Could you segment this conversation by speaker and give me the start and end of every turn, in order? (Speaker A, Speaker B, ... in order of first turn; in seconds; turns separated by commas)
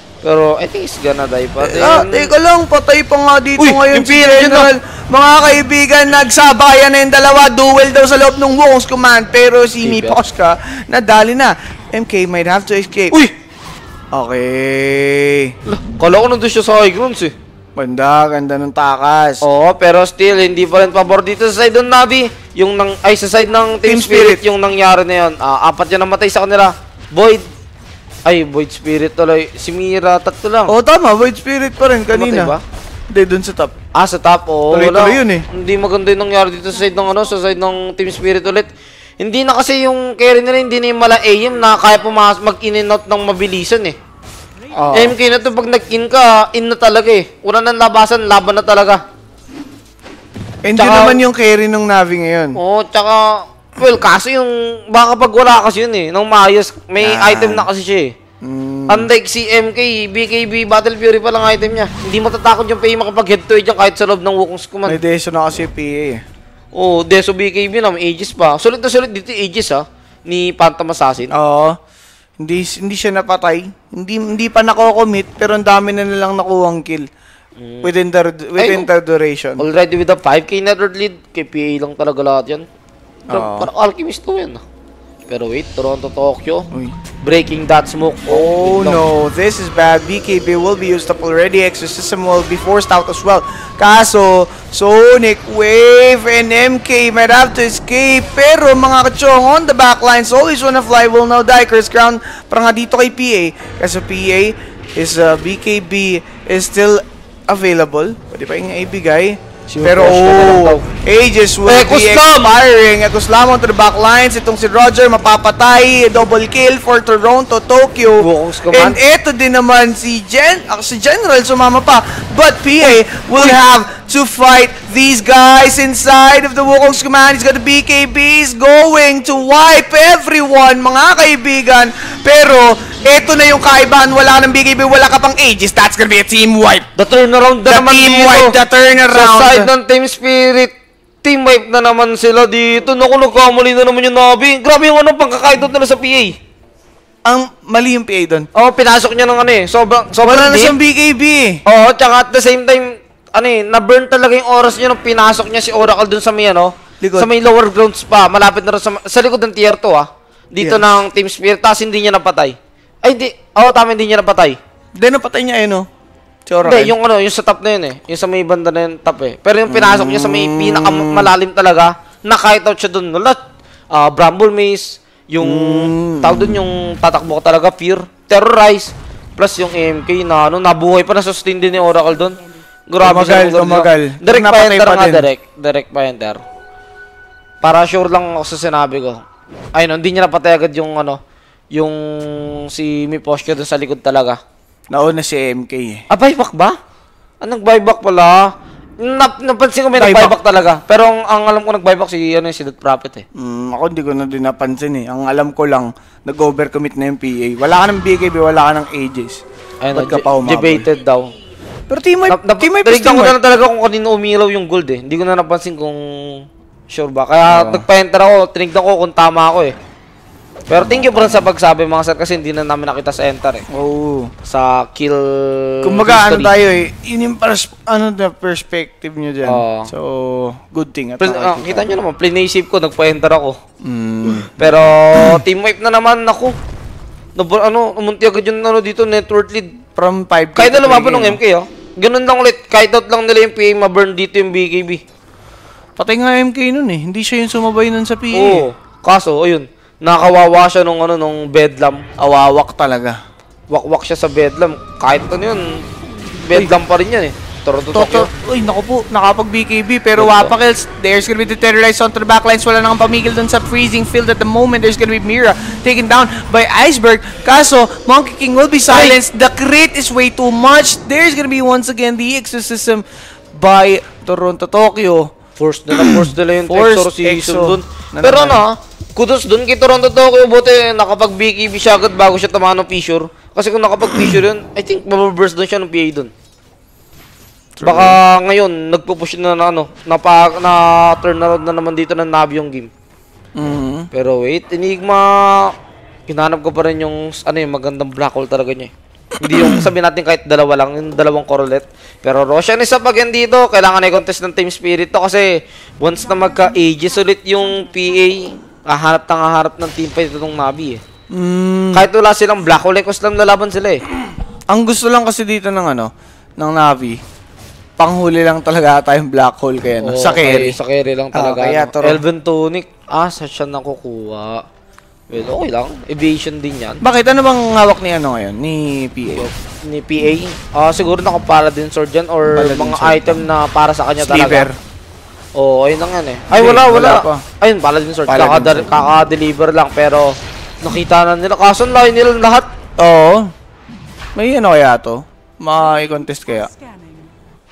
Speaker A: 0.2-2.3, Speaker B: 1.6-13.2, Speaker A: 3.6-4.7, Speaker A: 9.8-10.2, Speaker B: 14.1-15.6, Speaker A: 15.7-17.3, Speaker B: 17.8-19.4, Speaker A: 19.4-27.4, Speaker B: 23.9-24.4, Speaker A: 28.2-30.8, Speaker B: 30.7-32.5, Speaker A: 32.1-32.6, Speaker B: 33.1-33.7, Speaker A: 34.0-44.0, Speaker B: 34.7-35.5, Speaker C: 36.8-38.0, Speaker C: 44.7-45.5, Speaker B: 44.8-45.1, Speaker A: 44.9-49.0, Speaker B: 50.6-52.6, Speaker A: 50.8-51.2, Speaker A: 52.5-58.1, Speaker B: 57.0-57.7, Speaker B: 58.4-59.1, Speaker A: 58.9-65.0, Speaker B: 64.9-66.2, Speaker A: 66.7-71.3, Speaker B: 71.3-71.8, Speaker B: 72.4-77.1, Speaker A: 77.6-77.9, Speaker B: 77.8-79.7, Speaker A: 78.6-78.9, Speaker A: 79.6-82.7, Speaker B: 83.3-83.7, Speaker A: 83.3-84.6, Speaker A: 85.3-86.7, Speaker A: 87.2-89.0, Speaker B: 88.3-136.9, Speaker A: 109.7-110.8, Speaker A: 111.7-112.6, Speaker A: 118.2-119.0, Speaker A: 122.8-123.6, Speaker A: 137.0-138.6, Speaker B: 137.7-139.7, Speaker A: 139.1-140.7, Speaker A: 141.2-146.3, Speaker B: 147.2-148.5, Speaker A: 148.6-150.8, Speaker B: 150.2-151.6, Speaker A: 151.7-164.6, Speaker B: 157.0-157.3, Speaker B: 160.6-161.0, Speaker B: 165.0-165.9, Speaker B: 166.5-167.0, Speaker A: 166.6-173.4, Speaker B: 169.7-171.3, Speaker A: 173.9-186.4, Speaker B: 175.4-176.6, Speaker B: 183.0-185.3, Speaker A: 187.6-189.2, Speaker A: 189.8-191.2, Speaker A: 191.7-194.4, Speaker B: 194.9-196.0, Speaker A: 196.1-196.8, Speaker A: 197.4-198.5, Speaker A: 199.0-203.2, Speaker B: 200.0-200.3, Speaker B: 203.3-209.4, Speaker A: 209.8-211.3, Speaker B: 209.9-210.9, Speaker B: 211.9-213.4, Speaker A: 212.3-219.8, Speaker B: 217.5-217.8, Speaker A: 220.7-223.7, Speaker B: 220.7-221.5, Speaker B: 223.7-224.3, Speaker A: 224.5-226.5, Speaker B: 225.8-231.9, Speaker A: 229.4-229.9, Speaker A: 231.2-233.6, Speaker B: 233.8-235.4, Speaker A: 234.6-236.6, Speaker A: 237.4-239.7, Speaker B: 239.9-241.4, Speaker A: 240.6-245.0, Speaker B: 246.0-248.6, Speaker A: 248.3-252.0, Speaker B: 252.2-253.2, Speaker A: 253.7-255.8, Speaker A: 256.4-258.3, Speaker B: 257.9-275.3, Speaker A: 260.2-260.5, Speaker A: 268.9-269.2, Speaker A: 275.6-286.3, Speaker B: 275.9-278.6, Speaker B: 284.1-284.4, Speaker B: 287.8-288.2, Speaker A: 287.8-292.9, Speaker B: 293.6-294.1, Speaker A: 294.1-295.7, Speaker A: 296.3-311.0, Speaker B: 299.4-299.9, Speaker C: 306.4-308.1, Speaker B: 311.3-312.1, Speaker A: 311.9-314.0, Speaker B: 314.7-317.2, Speaker B: 318.0-320.8, Speaker A: 320.0-324.6, Speaker B: 321.3-322.2, Speaker A: 325.3-327.0, Speaker B: 327.0-329.5, Speaker A: 329.4-334.7, Speaker B: 332.6-333.4, Speaker B: 334.2-334.8, Speaker A: 335.6-342.7, Speaker B: 336.5-337.4, Speaker B: 338.3-338.9, Speaker B: 343.0-343.5, Speaker B: 344.4-346.7, Speaker C: 345.7-347.4